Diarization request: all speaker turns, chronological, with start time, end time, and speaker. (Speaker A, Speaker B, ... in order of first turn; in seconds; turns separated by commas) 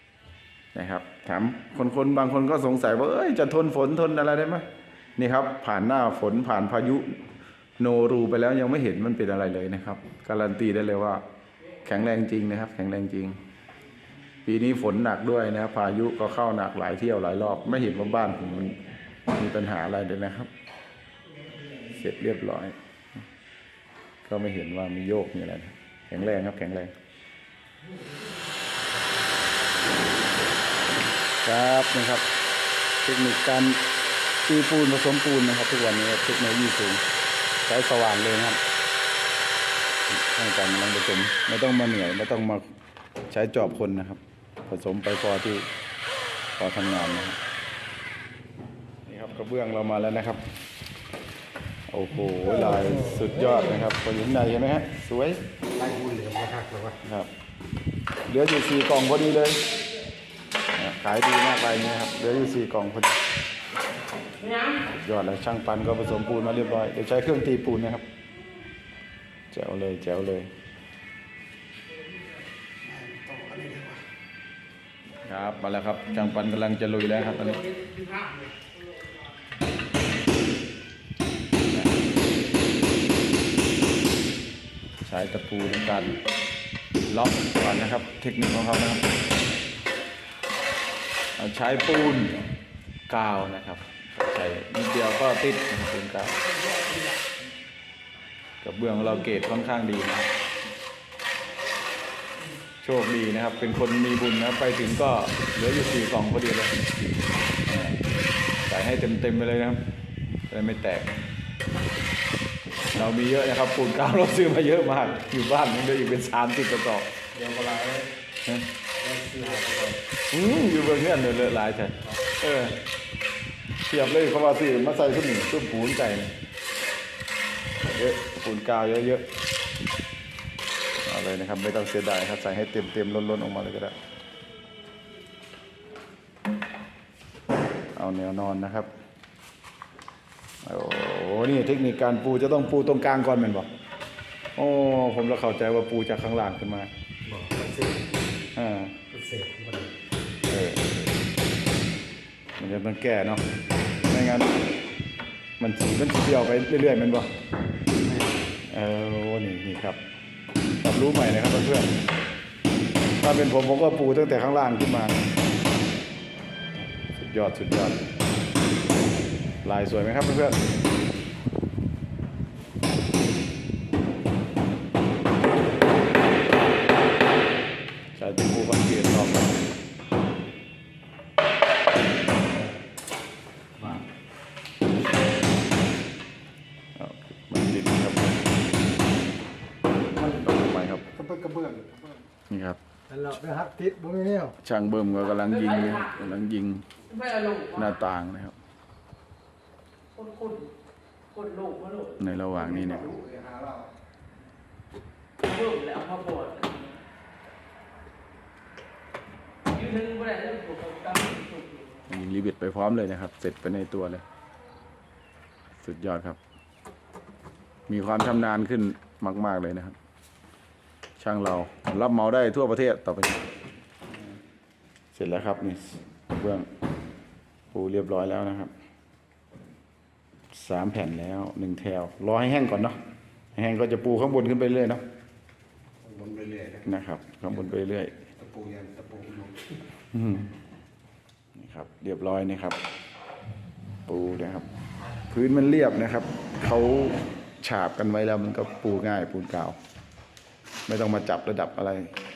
Speaker A: 0.7-7.2, Speaker A: 7.8-11.2, Speaker A: 11.8-13.4, Speaker A: 14.4-20.5, Speaker A: 21.8-22.8, Speaker A: 24.2-26.9, Speaker A: 31.4-32.2, Speaker A: 33.0-33.9, Speaker A: 34.5-37.0, Speaker A: 37.6-38.6, Speaker A: 40.1-42.6, Speaker A: 43.3-45.7, Speaker A: 46.6-47.4, Speaker A: 49.0-50.4, Speaker A: 51.9-55.4, Speaker B: 55.7-57.0, Speaker A: 57.0-57.3, Speaker A: 58.3-59.7, Speaker A: 60.7-63.2, Speaker A: 64.6-68.0, Speaker A: 69.5-70.5, Speaker B: 72.9-74.0, Speaker A: 75.2-78.0, Speaker A: 81.7-82.2, Speaker A: 85.0-86.2, Speaker A: 87.1-89.1, Speaker A: 91.3-92.5, Speaker A: 93.1-96.6, Speaker A: 98.6-100.3, Speaker A: 102.8-106.8, Speaker A: 107.7-108.0, Speaker A: 108.6-109.9, Speaker A: 110.5-111.2, Speaker A: 112.9-117.1, Speaker B: 117.3-118.1, Speaker A: 118.4-118.7, Speaker B: 119.0-120.0, Speaker A: 120.3-122.8, Speaker A: 123.8-126.3, Speaker A: 127.8-129.3, Speaker A: 131.0-134.0, Speaker A: 137.9-138.9, Speaker A: 140.6-143.7, Speaker A: 144.6-146.9, Speaker B: 147.2-148.1, Speaker A: 148.5-149.1, Speaker B: 149.1-149.9, Speaker A: 150.4-151.2, Speaker A: 152.6-153.4, Speaker A: 154.1-154.6, Speaker A: 155.6-157.3, Speaker B: 158.0-158.3, Speaker A: 158.7-160.0, Speaker A: 160.8-162.0, Speaker A: 163.2-165.2, Speaker A: 167.0-168.0, Speaker A: 169.6-170.6, Speaker A: 178.1-179.6, Speaker A: 183.8-184.1, Speaker A: 186.9-188.5, Speaker A: 190.2-191.1, Speaker B: 191.2-192.2, Speaker A: 192.5-192.8, Speaker B: 193.1-194.5, Speaker A: 194.6-198.6, Speaker C: 200.2-200.7, Speaker C: 201.3-202.0, Speaker A: 202.1-203.2, Speaker B: 203.1-203.9, Speaker C: 205.5-206.9, Speaker C: 209.8-211.8, Speaker A: 212.0-214.2, Speaker A: 215.8-216.4, Speaker A: 217.9-219.9, Speaker A: 221.2-223.4, Speaker A: 225.1-226.7, Speaker A: 227.7-228.7, Speaker A: 230.5-233.0, Speaker A: 233.5-235.0, Speaker B: 236.0-236.8, Speaker A: 236.8-238.3, Speaker B: 238.4-239.7, Speaker A: 240.1-240.5, Speaker A: 241.5-242.8, Speaker A: 244.1-244.7, Speaker A: 245.3-249.8, Speaker A: 250.9-252.1